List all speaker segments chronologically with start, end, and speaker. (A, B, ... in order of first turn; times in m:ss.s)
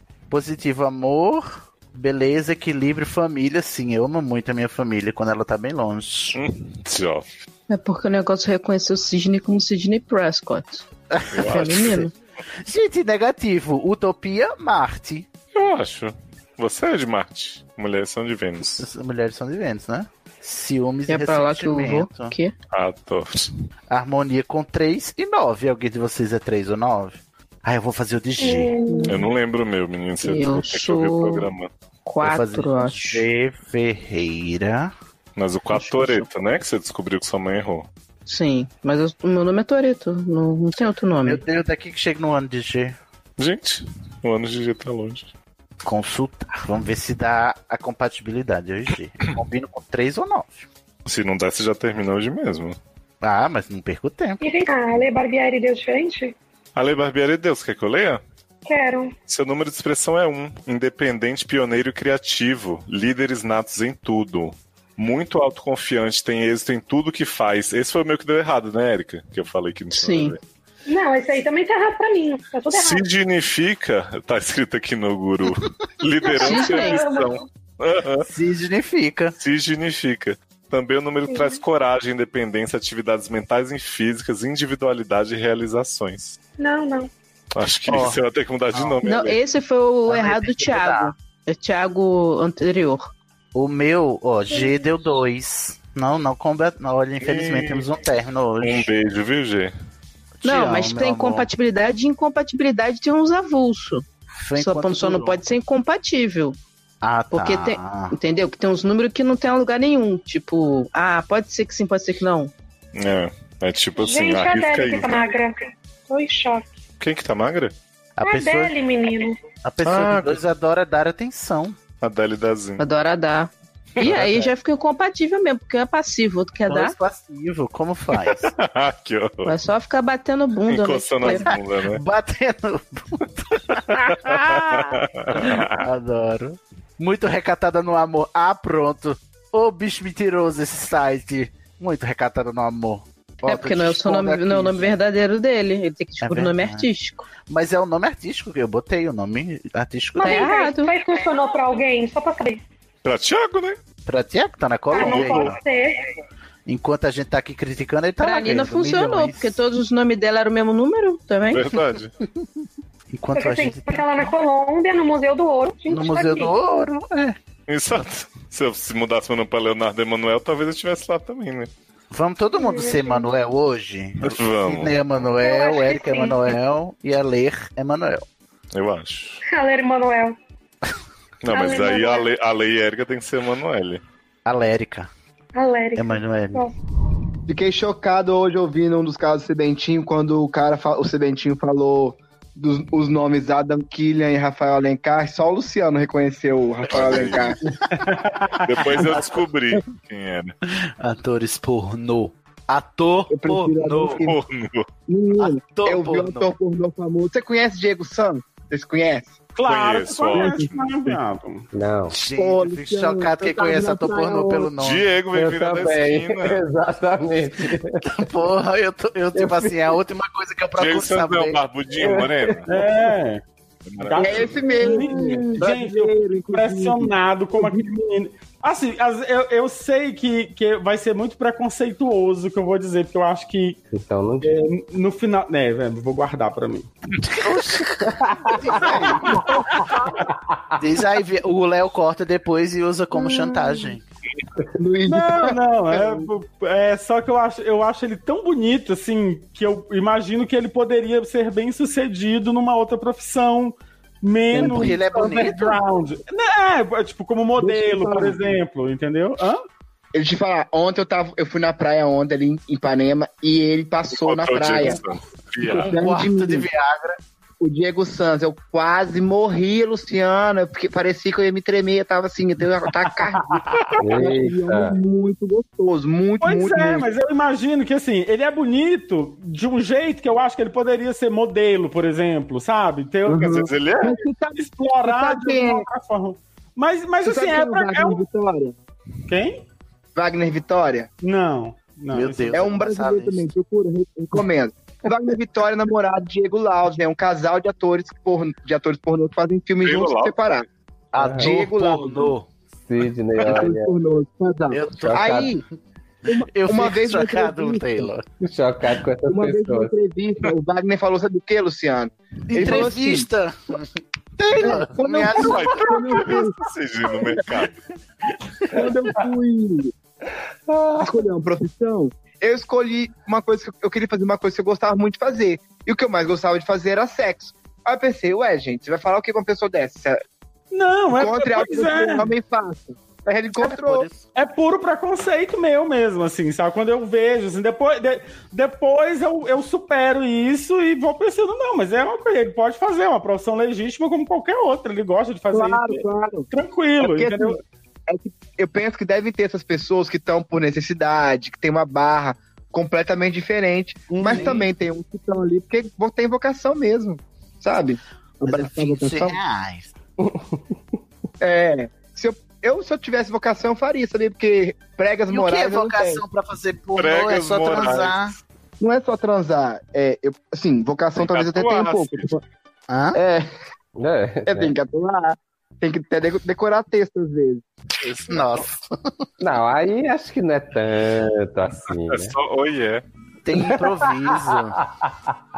0:00.3-0:06.4 A
0:06.3-0:07.3 B
0:07.7-0:10.8 C
0:11.1-0:12.1 A
0:11.3-0:11.9 B
0:11.4-0:12.1 C
0:12.6-0:15.3 A
0:15.5-0:18.8 B
0:18.8-0:22.3 A
0:21.1-0:22.5 C
0:22.7-0:23.5 B
0:23.9-0:28.8 A
0:28.4-0:29.0 D
0:28.8-0:29.2 C
0:29.1-0:31.7 B
0:30.2-0:31.5 C
0:32.0-0:33.2 C
0:32.2-0:34.9 A
0:35.4-0:37.9 B
0:35.7-0:36.3 C
0:38.2-0:41.4 C
0:41.2-0:43.0 A
0:43.4-0:45.3 B
0:45.8-0:50.7 A
0:51.0-0:52.8 B
0:53.2-0:54.4 A
0:54.4-0:56.3 D
0:56.7-0:58.2 B
0:58.6-0:59.1 D
0:59.3-1:10.4 B
1:09.9-1:10.4 C
1:10.9-1:13.0 D
1:12.7-1:18.3 B
1:16.3-1:17.0 C
1:16.4-1:17.3 D
1:18.2-1:19.3 A
1:19.4-1:26.4 B
1:21.3-1:21.6 D
1:26.6-1:27.1 D
1:27.5-1:29.4 B
1:27.9-1:28.2 A
1:28.7-1:29.0 A
1:29.0-1:33.1 C
1:30.1-1:31.1 A
1:33.5-1:38.9 A
1:34.5-1:34.8 D
1:37.2-1:37.9 B
1:38.6-1:39.7 B
1:40.4-1:41.5 A
1:40.4-1:44.0 C
1:44.4-1:45.4 A
1:44.6-1:46.6 C
1:47.0-1:48.1 A
1:47.3-1:52.5 C
1:52.9-1:55.2 B
1:54.0-1:55.6 D
1:56.1-1:56.7 D
1:57.0-1:57.7 B
1:58.2-1:58.8 A
1:58.2-1:59.4 D
1:59.6-2:01.8 A
1:59.8-2:00.4 B
2:02.0-2:02.8 B
2:02.8-2:07.0 C
2:04.0-2:04.3 B
2:04.0-2:04.5 A
2:06.7-2:08.5 A
2:08.3-2:09.6 B
2:09.4-2:11.5 C
2:10.7-2:12.0 B
2:11.2-2:25.0 A
2:14.2-2:15.8 B
2:23.4-2:27.3 C
2:26.2-2:26.9 A
2:27.4-2:30.5 A
2:30.2-2:30.9 C
2:30.2-2:32.6 D
2:33.0-2:33.8 B
2:34.0-2:35.6 A
2:34.9-2:35.9 D
2:35.0-2:35.5 B
2:36.6-2:39.6 A
2:38.2-2:41.7 C
2:41.5-2:42.1 B
2:43.1-2:44.4 A
2:43.3-2:46.5 D
2:45.8-2:47.4 A
2:47.7-2:51.7 B
2:52.1-2:58.2 A
2:52.6-2:53.3 D
2:54.2-2:54.9 B
2:55.4-2:56.5 D
2:58.7-2:59.4 B
2:59.5-3:00.3 D
3:01.4-3:04.0 B
3:01.5-3:02.2 D
3:04.4-3:05.1 A
3:05.5-3:06.7 D
3:05.9-3:06.6 A
3:07.5-3:17.6 E
3:16.9-3:17.5 B
3:16.9-3:17.4 A
3:17.9-3:18.9 F
3:18.6-3:20.5 B
3:20.8-3:24.2 A
3:23.3-3:24.4 E
3:24.2-3:24.9 B
3:25.1-3:29.4 E
3:25.4-3:26.5 A
3:29.6-3:31.7 F
3:29.6-3:31.2 B
3:30.4-3:30.7 E
3:31.7-3:32.2 G
3:32.1-3:35.0 A
3:32.3-3:34.7 E
3:34.8-3:36.5 B
3:35.3-3:38.0 G
3:38.0-3:41.6 A
3:39.4-3:39.7 G
3:40.8-3:42.7 B
3:42.0-3:42.3 G
3:42.7-3:43.4 F
3:43.9-3:44.6 B
3:44.0-3:53.8 F
3:44.2-3:47.8 E
3:53.9-3:54.6 G
3:54.4-3:56.9 F
3:57.3-3:59.4 A
3:58.7-3:59.6 E
4:00.8-4:04.0 A
4:03.2-4:03.5 E
4:04.8-4:06.3 E
4:05.0-4:19.6 F
4:14.5-4:15.8 A
4:17.6-4:18.6 E
4:20.1-4:25.0 E
4:24.1-4:25.9 B
4:25.7-4:26.7 E
4:25.7-4:27.2 A
4:27.6-4:37.1 E
4:34.0-4:35.0 G
4:36.4-4:43.6 F
4:43.2-4:45.8 E
4:43.4-4:44.2 B
4:44.6-4:48.2 F
4:47.2-4:48.8 E
4:49.3-4:49.6 F
4:50.1-4:51.1 E
4:51.2-4:52.5 F
4:52.1-4:53.5 A
4:52.5-5:00.6 E
4:59.8-5:00.3 B
5:01.1-5:02.5 A
5:01.2-5:01.5 G
5:01.4-5:02.3 E
5:02.8-5:03.9 G
5:03.4-5:05.6 E
5:04.7-5:05.6 A
5:05.0-5:05.5 G
5:06.3-5:08.1 E
5:06.3-5:08.2 A
5:08.4-5:09.9 G
5:09.3-5:13.3 E
5:12.5-5:16.4 A
5:14.6-5:16.6 E
5:15.3-5:17.8 B
5:18.7-5:19.9 E
5:21.0-5:30.2 E
5:30.7-5:32.3 F
5:31.1-5:34.1 E
5:33.6-5:34.2 A
5:34.3-5:47.6 F
5:45.5-5:46.5 E
5:47.0-5:47.6 E
5:48.1-5:59.4 E
5:54.2-5:54.7 F
5:58.4-5:59.9 A
6:01.4-6:06.2 E
6:05.3-6:08.4 A
6:07.0-6:08.2 B
6:08.8-6:12.4 E
6:11.2-6:12.3 B
6:12.9-6:13.2 A
6:13.1-6:13.5 E
6:14.0-6:14.7 G
6:14.4-6:17.6 E
6:18.0-6:18.4 B
6:18.3-6:19.0 A
6:19.4-6:22.3 G
6:21.9-6:23.0 B
6:23.4-6:24.8 A